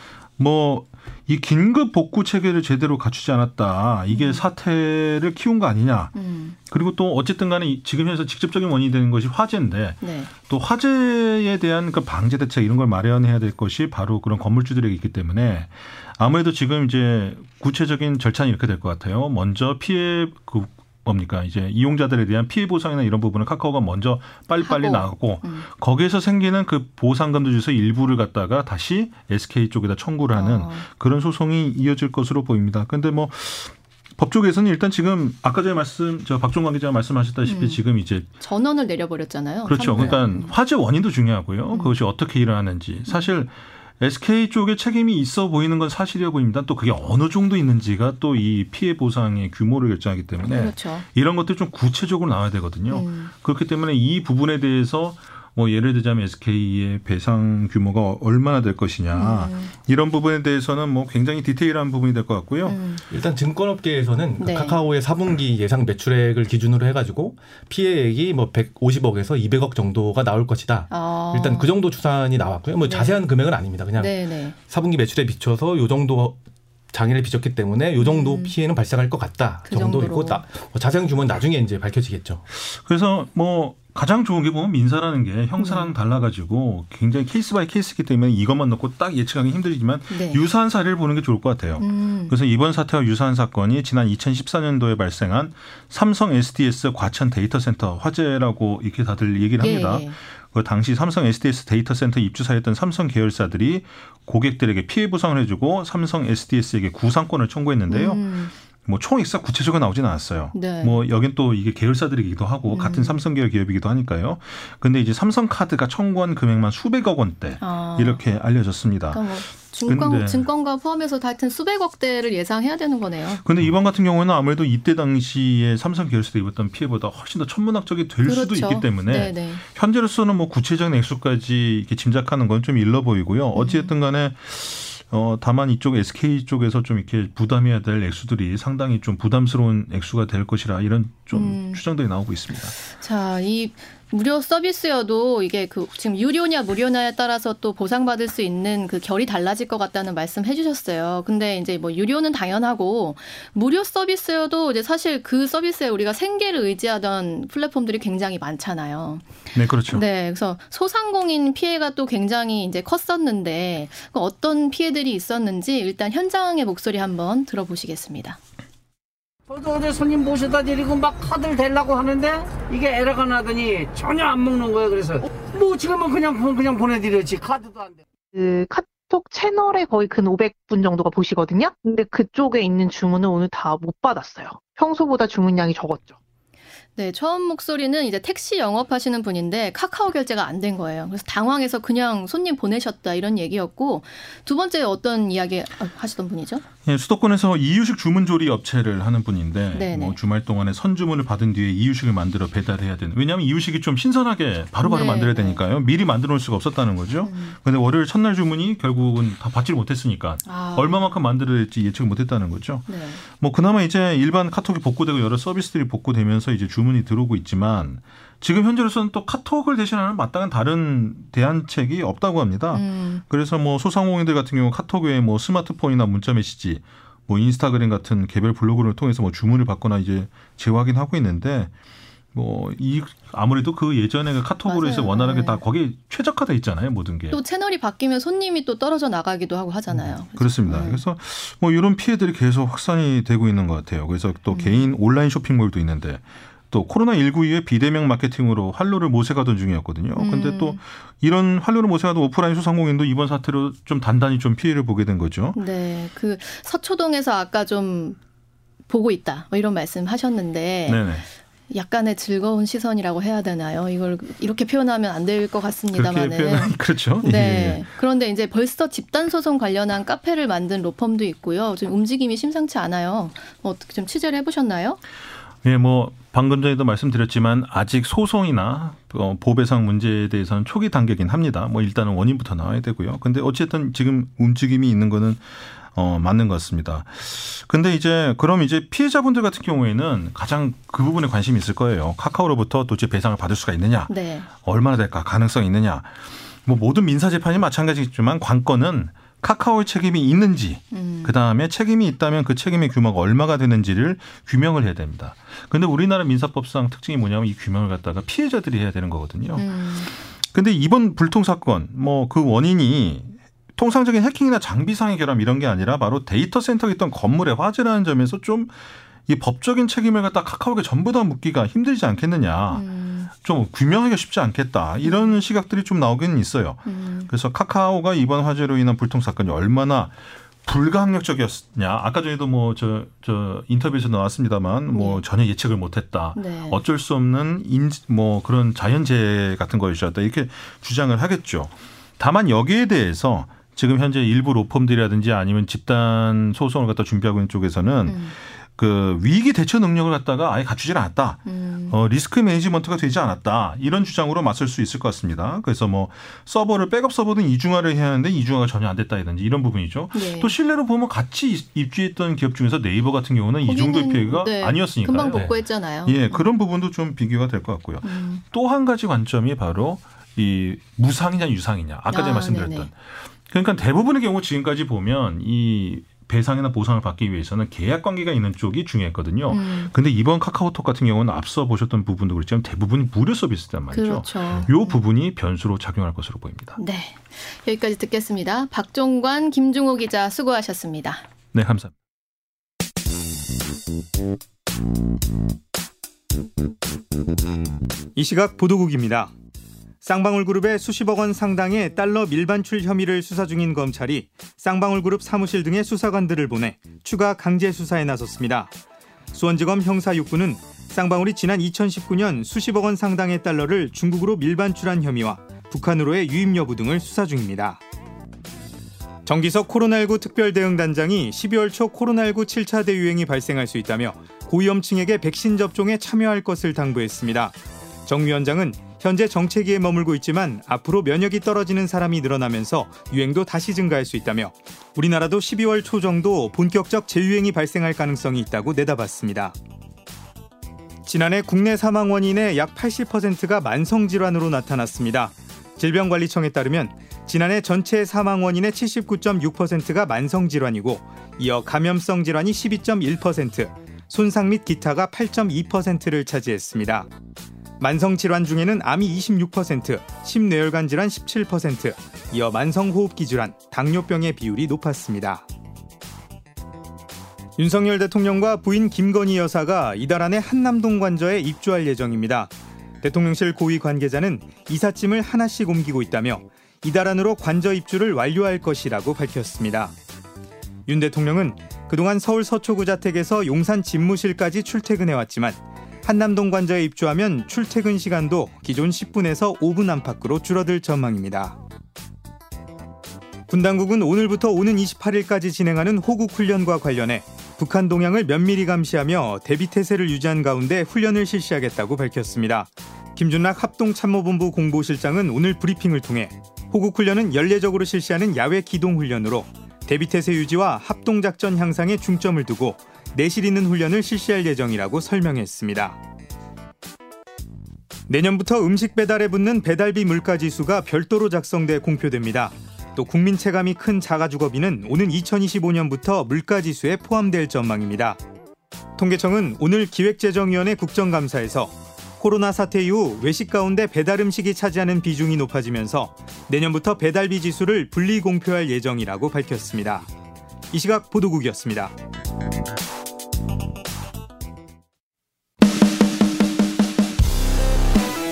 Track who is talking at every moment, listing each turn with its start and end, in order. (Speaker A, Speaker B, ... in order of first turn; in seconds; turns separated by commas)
Speaker A: 0.4-6.2, Speaker B: 4.1-4.4, Speaker B: 6.2-6.6, Speaker A: 6.7-38.3, Speaker B: 10.0-10.3, Speaker B: 24.6-25.7, Speaker B: 30.4-30.9, Speaker B: 37.5-37.8, Speaker B: 38.4-40.5, Speaker A: 39.7-62.8, Speaker B: 50.5-51.0, Speaker B: 52.9-53.3, Speaker B: 59.1-59.7, Speaker B: 62.7-63.0, Speaker C: 63.1-74.1, Speaker B: 64.4-64.8, Speaker B: 70.9-71.7, Speaker B: 72.8-73.2, Speaker B: 74.0-74.6, Speaker C: 74.7-76.4, Speaker C: 76.9-82.4, Speaker B: 78.0-78.5, Speaker B: 79.7-80.4, Speaker A: 82.5-120.5, Speaker B: 85.6-85.9, Speaker B: 90.1-90.4, Speaker B: 91.8-92.3, Speaker B: 99.6-100.2, Speaker B: 107.9-108.5, Speaker B: 110.5-111.0, Speaker B: 112.7-113.2, Speaker B: 117.6-118.2, Speaker B: 119.1-123.4, Speaker A: 123.4-142.8, Speaker B: 128.2-129.6, Speaker B: 133.6-133.9, Speaker B: 141.3-141.8, Speaker B: 142.8-168.4, Speaker A: 159.6-160.0, Speaker D: 169.5-178.0, Speaker E: 178.3-186.2, Speaker B: 187.0-196.6, Speaker A: 196.8-231.7, Speaker B: 199.7-200.2, Speaker B: 204.8-205.6, Speaker B: 207.2-207.6, Speaker B: 210.4-211.1, Speaker B: 212.9-213.2, Speaker B: 222.7-223.2, Speaker A: 232.3-237.4, Speaker B: 234.7-235.6, Speaker B: 237.3-241.0, Speaker A: 239.9-255.6, Speaker B: 244.5-244.9, Speaker B: 250.2-250.8, Speaker B: 255.6-258.2, Speaker B: 258.9-261.0, Speaker A: 260.9-261.2, Speaker B: 261.7-275.0, Speaker A: 265.9-267.9, Speaker A: 275.6-386.8, Speaker B: 294.1-294.5, Speaker B: 300.9-301.3, Speaker B: 309.6-310.1, Speaker B: 322.7-323.3, Speaker B: 325.0-325.4, Speaker B: 326.9-327.3, Speaker B: 334.9-335.2, Speaker B: 336.4-336.8, Speaker B: 348.1-348.4, Speaker B: 351.5-351.9, Speaker B: 360.1-360.5, Speaker B: 363.6-366.4, Speaker B: 368.0-368.4, Speaker B: 372.1-372.9, Speaker B: 379.5-379.9, Speaker B: 383.9-385.0, Speaker B: 386.8-391.2, Speaker A: 391.5-391.9, Speaker F: 398.1-399.3, Speaker F: 400.0-408.7, Speaker F: 409.3-417.8, Speaker F: 419.3-439.6, Speaker F: 441.1-457.1, Speaker F: 457.8-465.4, Speaker F: 467.6-479.9, Speaker F: 480.9-491.6, Speaker F: 493.5-516.0, Speaker F: 518.1-528.2, Speaker F: 529.0-540.1, Speaker F: 540.7-541.9